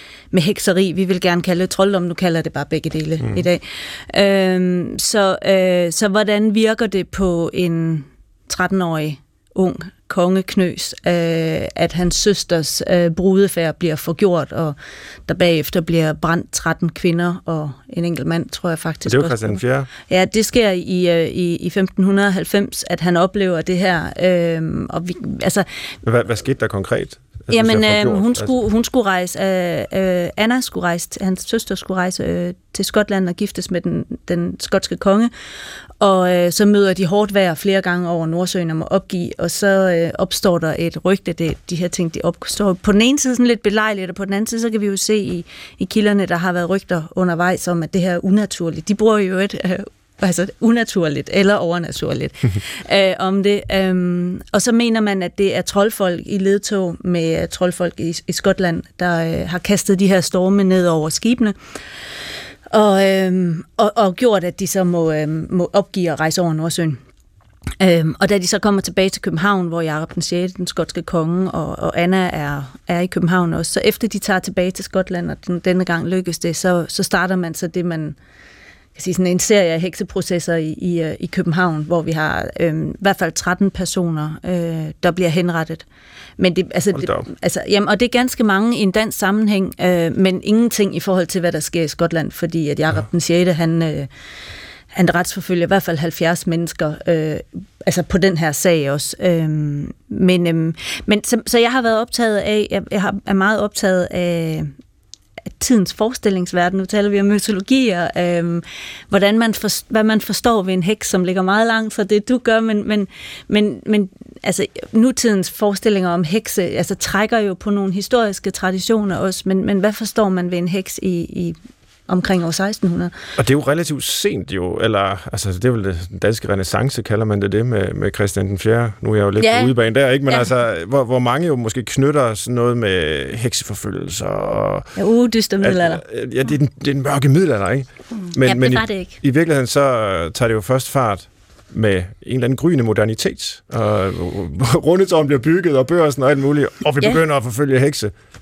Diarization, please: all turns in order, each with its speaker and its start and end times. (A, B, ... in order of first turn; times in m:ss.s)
0:00.3-0:14.8 A
0:03.2-0:03.5 B
0:15.3-0:25.7 A
0:19.1-0:19.9 B
0:26.0-0:28.6 B
0:27.5-0:35.3 A
0:36.0-1:01.6 A
1:02.7-1:07.0 A
1:07.8-1:18.2 A
1:19.0-1:25.8 A
1:26.4-1:34.1 A
1:26.9-1:27.3 B
1:34.9-1:44.7 A
1:45.6-2:01.6 A
2:02.1-2:03.1 A
2:03.4-2:14.9 B
2:09.4-2:09.7 A
2:15.0-2:16.0 A
2:15.6-2:28.1 B
2:18.4-2:19.2 A